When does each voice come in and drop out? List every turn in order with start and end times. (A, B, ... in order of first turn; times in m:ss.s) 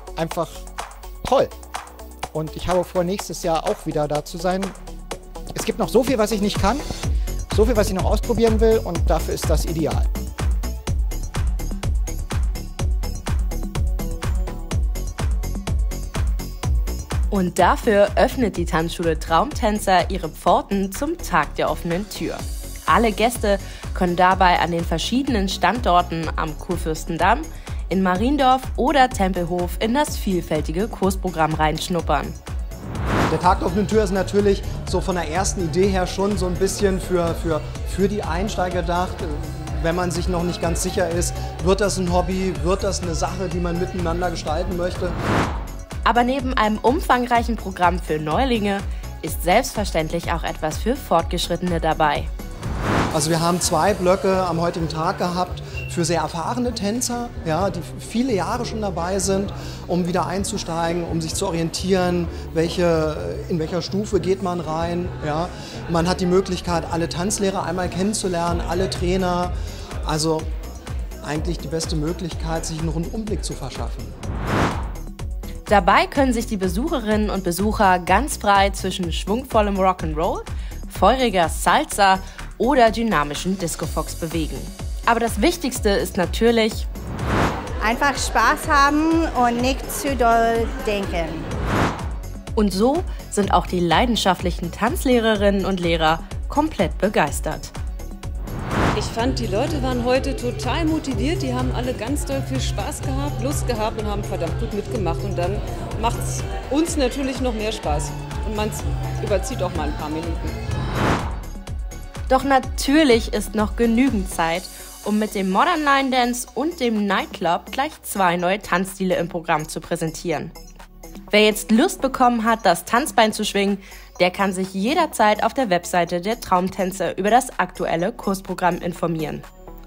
0:00.2-0:00.6 A
0:01.2-0:01.5 A
0:02.3-0:04.7 A
0:05.5-0:06.8 A
0:07.5-0:10.1 A
0:17.3-0:32.4 B
0:33.3-0:45.2 C
0:46.0-0:52.3 B
0:53.1-1:09.5 C
1:10.0-1:10.5 C
1:11.2-1:14.1 C
1:15.7-1:26.9 B
1:27.9-1:31.4 D
1:32.6-1:37.7 B
1:39.0-1:50.5 E
1:52.3-2:00.5 B
2:01.3-2:09.4 B